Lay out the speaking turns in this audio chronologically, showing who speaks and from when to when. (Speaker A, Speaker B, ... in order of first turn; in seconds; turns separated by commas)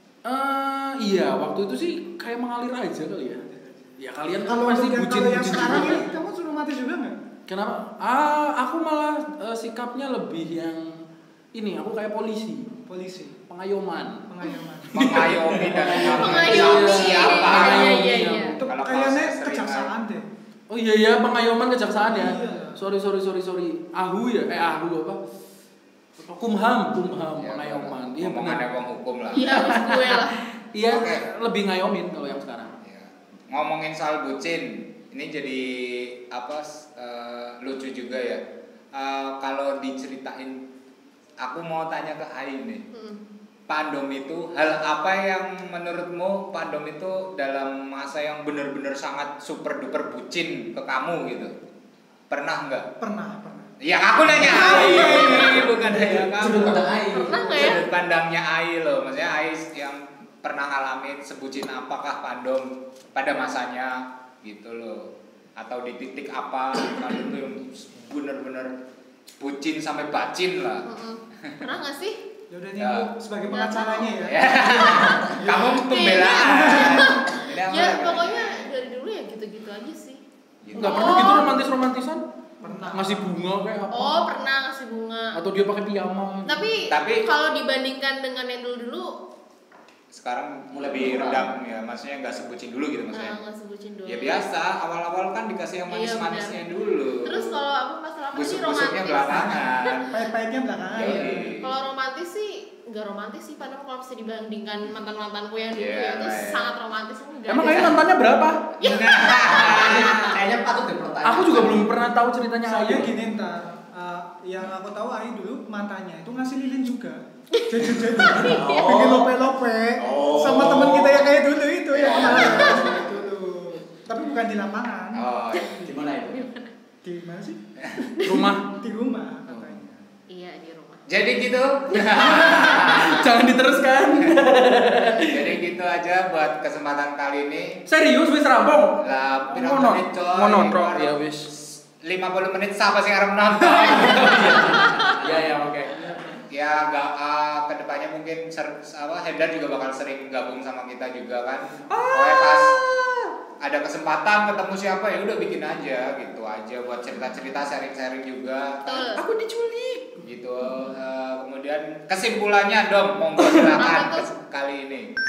Speaker A: 0.2-3.4, Speaker B: 3.4-7.2, Speaker A: 4.0-6.0, Speaker A: 7.5-11.0, Speaker A: 11.5-12.7, Speaker B: 12.9-13.4, Speaker A: 13.5-14.2, Speaker B: 14.3-15.6, Speaker A: 14.9-18.6, Speaker C: 14.9-18.1, Speaker D: 15.9-18.6, Speaker B: 18.6-20.2, Speaker C: 18.6-19.9, Speaker A: 20.7-25.2, Speaker B: 22.0-22.8, Speaker A: 26.2-28.6, Speaker C: 27.4-29.6, Speaker D: 29.3-30.4, Speaker A: 29.4-32.7, Speaker C: 30.8-31.3, Speaker C: 32.8-38.4, Speaker C: 38.9-40.6, Speaker C: 41.4-42.8, Speaker D: 42.9-43.2, Speaker C: 43.7-51.5, Speaker C: 52.3-52.9, Speaker B: 53.0-53.7, Speaker C: 53.8-68.7, Speaker B: 54.4-57.8, Speaker E: 54.5-57.5, Speaker D: 57.1-57.8, Speaker C: 69.4-70.9, Speaker D: 70.8-72.2, Speaker B: 72.5-75.7, Speaker C: 72.8-73.1, Speaker D: 73.4-80.2, Speaker C: 74.2-78.7, Speaker B: 76.4-77.2, Speaker C: 80.6-81.4, Speaker D: 80.7-81.5, Speaker A: 80.8-82.2, Speaker B: 82.6-83.3, Speaker A: 82.9-84.2, Speaker D: 83.9-85.4, Speaker A: 85.3-86.7, Speaker D: 86.5-89.2, Speaker C: 86.9-87.3, Speaker C: 90.1-93.3, Speaker E: 90.7-91.5, Speaker D: 93.1-94.5, Speaker C: 94.0-97.6, Speaker D: 95.9-96.6, Speaker D: 97.2-100.2, Speaker C: 98.3-100.1, Speaker B: 99.6-101.5, Speaker C: 100.9-101.7, Speaker D: 101.0-108.0, Speaker C: 105.7-106.7, Speaker A: 107.5-108.7, Speaker D: 108.8-110.2, Speaker C: 108.8-110.4, Speaker E: 109.4-111.9, Speaker A: 111.2-113.2, Speaker B: 112.6-125.3, Speaker D: 117.5-118.7, Speaker E: 118.1-119.3, Speaker E: 120.0-121.3, Speaker C: 121.9-122.9, Speaker D: 122.1-122.9, Speaker E: 122.4-122.8, Speaker C: 125.1-125.9, Speaker D: 125.5-126.7, Speaker E: 125.8-126.4, Speaker B: 127.0-127.6, Speaker D: 128.2-128.4, Speaker A: 128.2-128.7, Speaker B: 128.7-130.0, Speaker C: 129.5-129.8, Speaker D: 130.3-131.1, Speaker C: 131.1-133.3, Speaker D: 131.9-133.2, Speaker A: 132.1-135.5, Speaker C: 135.2-137.8, Speaker A: 137.9-141.5, Speaker C: 139.0-145.3, Speaker A: 143.6-146.1, Speaker C: 146.5-152.7, Speaker A: 151.9-153.3, Speaker C: 153.6-159.1, Speaker D: 158.8-159.2, Speaker A: 159.1-160.2, Speaker C: 160.2-165.1, Speaker D: 163.6-164.3